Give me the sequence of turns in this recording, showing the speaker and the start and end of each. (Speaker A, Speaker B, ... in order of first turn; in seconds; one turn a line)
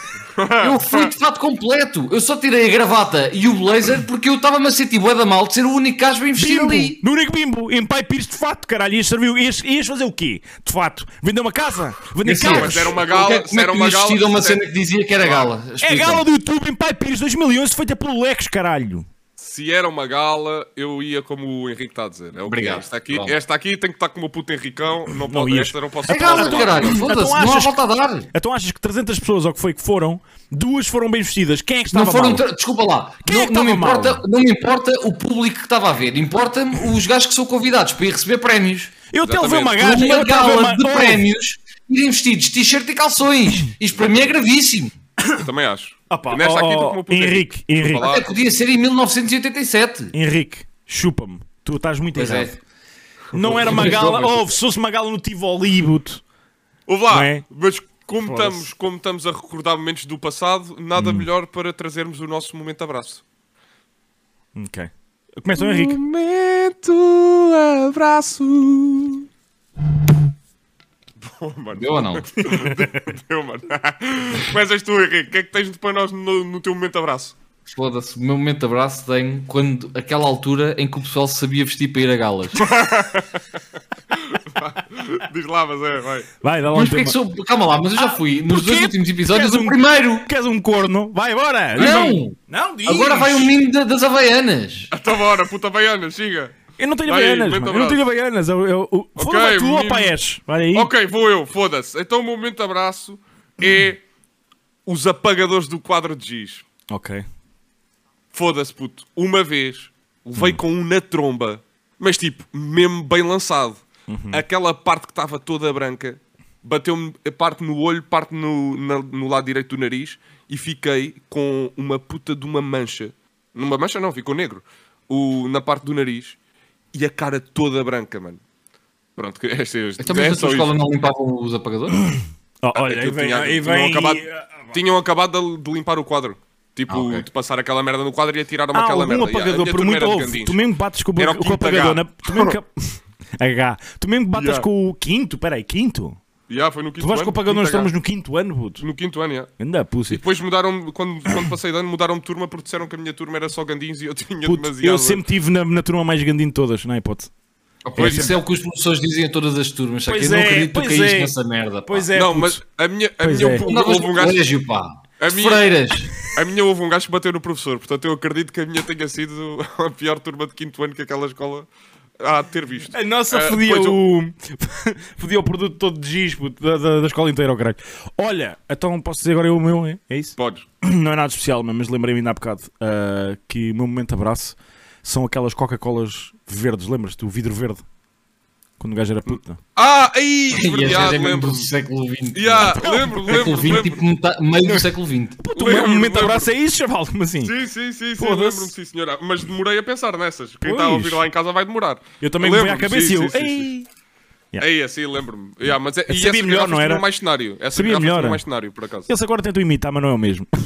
Speaker A: 0.3-1.1
Speaker B: 0.6-7.0
Speaker C: 6.3-13.0
Speaker B: 12.2-16.2
Speaker A: 12.4-14.6
Speaker A: 15.2-15.5
Speaker C: 15.8-19.1
Speaker A: 19.4-27.0
Speaker B: 22.5-23.4
Speaker C: 25.1-27.8
Speaker B: 26.1-28.3
Speaker C: 28.3-32.4
Speaker B: 31.9-38.9
Speaker C: 33.2-34.2
Speaker C: 39.1-41.2
Speaker A: 39.2-39.8
Speaker B: 39.8-44.9
Speaker A: 45.4-48.3
Speaker C: 46.1-48.1
Speaker B: 48.0-50.1
Speaker C: 50.1-52.5
Speaker B: 52.1-52.6
Speaker C: 53.3-56.2
Speaker B: 53.4-54.5
Speaker A: 56.9-63.2
Speaker C: 57.1-57.4
Speaker C: 58.2-58.7
Speaker C: 61.0-61.3
Speaker C: 64.5-66.0
Speaker A: 65.5-69.2
Speaker A: 71.2-77.3
Speaker B: 71.7-72.3
Speaker C: 72.4-73.0
Speaker B: 77.7-82.6
Speaker A: 82.5-83.4
Speaker A: 84.1-86.3
Speaker C: 86.4-87.2
Speaker B: 86.7-90.3
Speaker C: 88.0-93.5
Speaker B: 91.8-94.9
Speaker A: 94.9-98.0
Speaker C: 96.8-100.9
Speaker A: 99.2-100.2
Speaker A: 100.7-104.0
Speaker A: 104.8-106.6
Speaker C: 106.9-107.2
Speaker A: 108.3-126.3
Speaker C: 114.1-114.4
Speaker A: 126.9-128.4
Speaker A: 129.2-130.7
Speaker B: 130.0-132.0
Speaker C: 132.6-134.8
Speaker A: 132.7-140.6
Speaker B: 136.9-137.2
Speaker C: 138.7-146.2
Speaker A: 141.2-142.6
Speaker A: 144.3-144.7
Speaker A: 146.5-147.9
Speaker C: 147.0-148.8
Speaker A: 148.8-149.5
Speaker C: 149.6-150.2
Speaker A: 150.1-155.2
Speaker C: 154.4-157.3
Speaker B: 157.8-162.1
Speaker C: 158.0-158.3
Speaker A: 158.0-158.3
Speaker C: 160.1-161.3
Speaker C: 161.9-162.6
Speaker A: 162.1-164.5
Speaker C: 163.2-163.7
Speaker B: 163.6-166.1
Speaker A: 165.2-165.7
Speaker A: 166.2-171.7
Speaker A: 172.2-174.0
Speaker C: 172.9-187.8
Speaker A: 180.4-180.7
Speaker C: 188.8-189.6
Speaker A: 189.3-191.7
Speaker B: 190.5-195.4
Speaker A: 192.3-194.0
Speaker C: 192.6-193.9
Speaker C: 194.6-197.5
Speaker A: 195.5-196.5
Speaker A: 197.4-203.7
Speaker C: 198.2-198.7
Speaker C: 200.6-201.2
Speaker C: 202.2-203.9
Speaker A: 204.6-209.1
Speaker C: 206.1-207.0
Speaker C: 207.7-208.4
Speaker C: 209.1-210.5